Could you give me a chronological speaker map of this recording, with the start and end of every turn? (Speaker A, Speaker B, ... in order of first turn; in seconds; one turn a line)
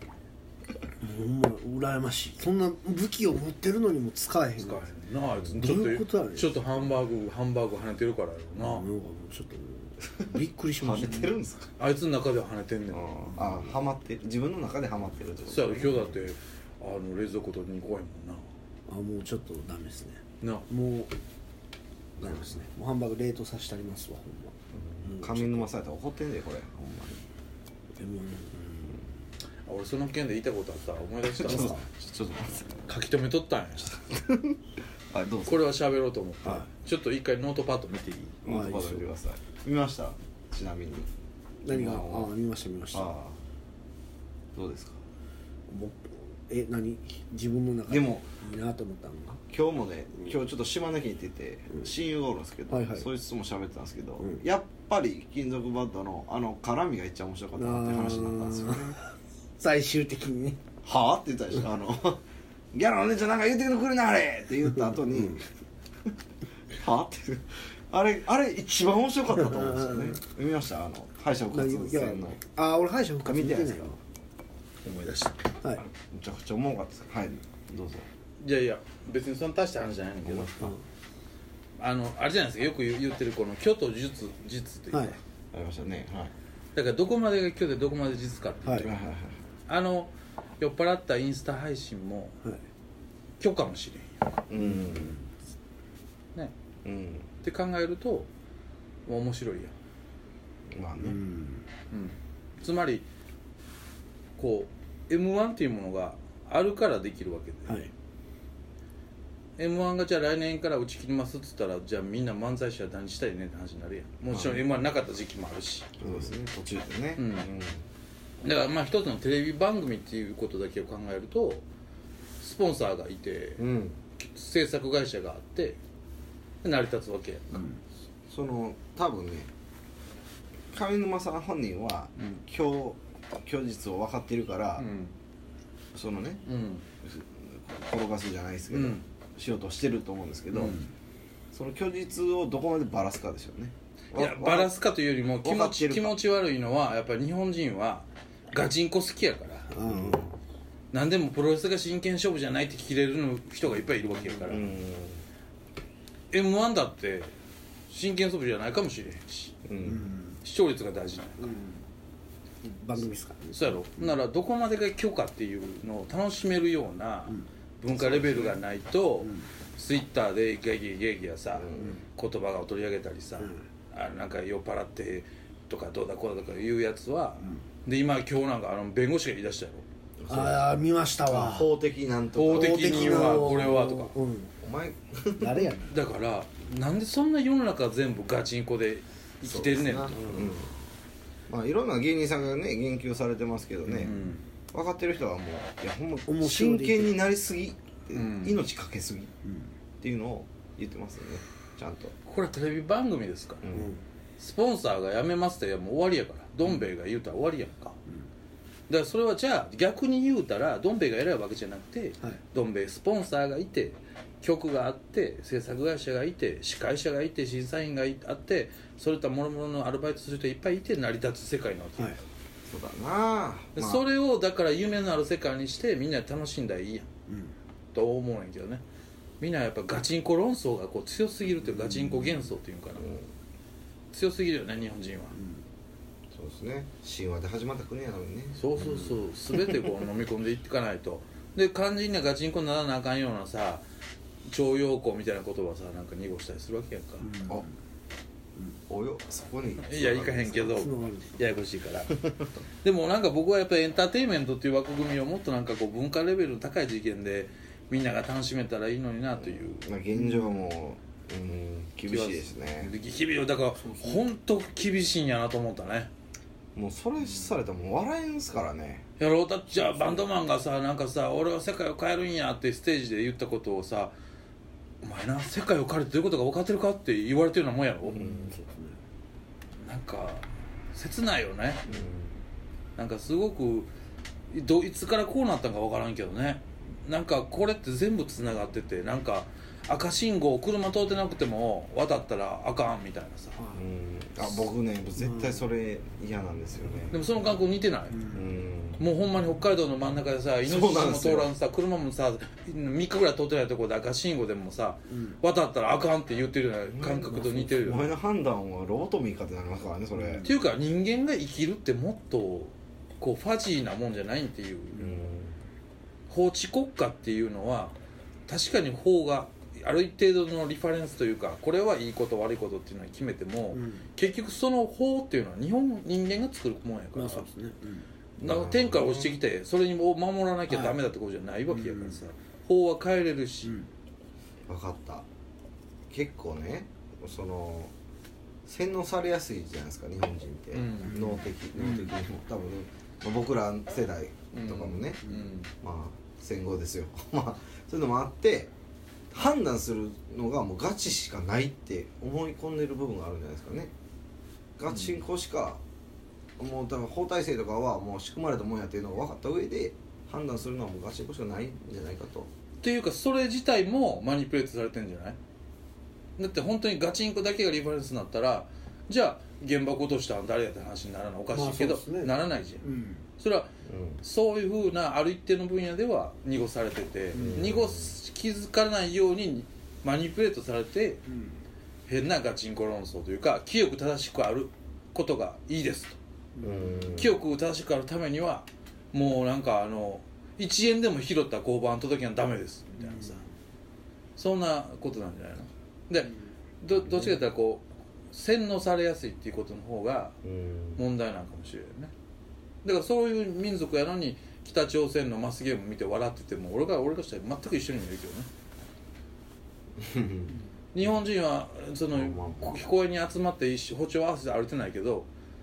Speaker A: 1.0-4.8
Speaker B: 4.6-8.8
Speaker A: 5.5-6.5
Speaker A: 8.6-11.3
Speaker C: 10.8-11.7
Speaker B: 11.0-11.2
Speaker B: 11.8-13.4
Speaker C: 12.9-16.1
Speaker B: 15.4-18.4
Speaker A: 18.9-21.1
Speaker B: 20.4-20.7
Speaker C: 22.2-22.5
Speaker A: 22.2-25.7
Speaker C: 24.7-27.2
Speaker A: 28.0-29.1
Speaker B: 29.6-31.8
Speaker C: 31.4-32.9
Speaker A: 31.5-31.8
Speaker B: 32.9-34.0
Speaker C: 34.0-34.6
Speaker C: 35.1-35.7
Speaker B: 35.5-38.4
Speaker C: 38.4-41.1
Speaker A: 38.5-39.1
Speaker A: 41.6-43.1
Speaker C: 41.7-42.3
Speaker C: 42.9-43.4
Speaker C: 44.5-45.0
Speaker A: 45.7-49.4
Speaker C: 47.9-48.3
Speaker C: 49.5-59.0
Speaker A: 52.7-53.1
Speaker A: 57.5-60.6
Speaker C: 60.8-62.2
Speaker C: 62.7-65.4
Speaker A: 65.0-65.4
Speaker C: 66.7-72.4
Speaker A: 69.5-70.2
Speaker A: 71.5-74.0
Speaker C: 73.2-74.0
Speaker B: 74.9-75.4
Speaker C: 75.8-78.1
Speaker B: 78.4-80.7
Speaker C: 80.2-80.5
Speaker B: 81.8-85.2
Speaker C: 85.5-86.3
Speaker B: 86.7-88.9
Speaker A: 88.6-88.9
Speaker C: 88.8-89.4
Speaker B: 89.7-92.4
Speaker B: 93.4-94.4
Speaker C: 94.5-95.2
Speaker A: 94.5-95.2
Speaker C: 96.8-97.3
Speaker B: 97.4-98.3
Speaker B: 99.0-99.7
Speaker C: 100.7-101.2
Speaker A: 101.0-101.7
Speaker B: 101.9-103.0
Speaker B: 104.4-107.8
Speaker B: 109.6-116.0
Speaker C: 114.3-114.6
Speaker C: 116.0-117.8
Speaker B: 117.2-117.5
Speaker B: 118.4-121.6
Speaker B: 122.4-123.6
Speaker C: 123.6-124.0
Speaker B: 124.2-125.8
Speaker B: 126.6-127.7
Speaker C: 128.3-129.5
Speaker C: 130.7-134.9
Speaker B: 134.8-135.1
Speaker C: 135.9-136.4
Speaker B: 136.4-136.8
Speaker C: 137.0-140.8
Speaker B: 138.7-139.0
Speaker B: 140.5-140.8
Speaker C: 141.5-144.7
Speaker B: 144.1-149.7
Speaker C: 145.4-146.2
Speaker A: 149.7-150.2
Speaker C: 149.8-150.3
Speaker B: 150.9-154.7
Speaker C: 154.4-155.2
Speaker B: 156.3-157.3
Speaker B: 157.9-159.6
Speaker C: 159.6-160.1
Speaker A: 159.8-160.4
Speaker B: 160.4-161.5
Speaker A: 161.4-161.8
Speaker A: 162.6-163.7
Speaker B: 163.5-179.8
Speaker C: 168.0-168.6
Speaker A: 169.2-169.5
Speaker C: 171.5-172.0
Speaker C: 180.2-183.7
Speaker A: 180.3-181.7
Speaker B: 182.3-184.1
Speaker A: 182.5-184.5
Speaker C: 184.6-185.7
Speaker A: 185.4-185.9
Speaker B: 185.9-190.5
Speaker C: 189.4-190.7
Speaker C: 191.5-194.2
Speaker B: 193.9-194.4
Speaker C: 194.7-199.3
Speaker A: 196.3-197.1
Speaker B: 198.1-198.6
Speaker C: 200.0-202.1
Speaker B: 202.2-203.6
Speaker C: 203.6-203.9
Speaker A: 203.7-204.0
Speaker B: 204.4-208.0
Speaker B: 208.9-222.2
Speaker C: 222.7-224.0
Speaker B: 223.8-227.1
Speaker A: 227.3-227.5
Speaker B: 227.9-228.8
Speaker B: 229.4-233.1
Speaker C: 233.0-233.3
Speaker B: 234.1-235.3
Speaker A: 235.3-235.6
Speaker C: 236.3-238.7
Speaker B: 238.6-243.8
Speaker C: 239.5-239.9
Speaker B: 244.4-247.3
Speaker A: 247.2-247.7
Speaker C: 248.9-250.8
Speaker B: 249.8-252.3
Speaker A: 250.6-251.3
Speaker B: 252.8-259.8
Speaker C: 259.4-262.9
Speaker A: 260.1-260.6
Speaker B: 262.1-266.1
Speaker A: 263.8-264.2
Speaker C: 266.7-269.0
Speaker B: 269.2-274.1
Speaker B: 275.0-278.3
Speaker A: 278.0-279.0
Speaker C: 278.1-278.5
Speaker B: 279.8-281.8
Speaker C: 281.9-282.4
Speaker B: 282.9-283.9
Speaker B: 284.5-293.6
Speaker C: 293.7-297.2
Speaker A: 295.2-295.6
Speaker B: 297.1-298.2
Speaker A: 298.1-298.4
Speaker C: 298.3-299.0
Speaker B: 299.0-308.1
Speaker C: 300.6-301.5
Speaker A: 305.1-305.4
Speaker C: 306.9-310.5
Speaker A: 310.2-310.5
Speaker B: 310.4-315.1
Speaker C: 314.9-315.6
Speaker B: 316.3-317.9
Speaker B: 318.5-327.5
Speaker A: 323.7-324.1
Speaker A: 327.1-328.1
Speaker C: 328.4-329.3
Speaker B: 328.4-333.8
Speaker A: 330.7-330.9
Speaker A: 331.7-332.2
Speaker C: 334.7-335.2
Speaker C: 336.1-337.9
Speaker C: 338.6-348.7
Speaker B: 340.7-341.4
Speaker A: 341.8-342.1
Speaker B: 344.5-345.7
Speaker C: 349.3-353.9
Speaker C: 354.8-355.8
Speaker C: 356.6-362.5
Speaker B: 362.8-365.4
Speaker B: 366.4-372.8
Speaker A: 371.5-372.3
Speaker A: 372.8-373.2
Speaker B: 373.4-373.7
Speaker C: 373.9-374.2
Speaker B: 374.2-381.2
Speaker A: 377.3-377.7
Speaker C: 377.3-378.1
Speaker A: 381.3-381.6
Speaker B: 382.1-386.2
Speaker A: 386.6-387.2
Speaker C: 386.6-387.3
Speaker B: 387.1-393.4
Speaker A: 393.0-393.4
Speaker B: 394.4-400.4
Speaker C: 400.4-401.0
Speaker B: 400.9-402.1
Speaker B: 402.8-408.5
Speaker C: 410.0-410.5
Speaker B: 410.9-415.3
Speaker C: 412.1-412.9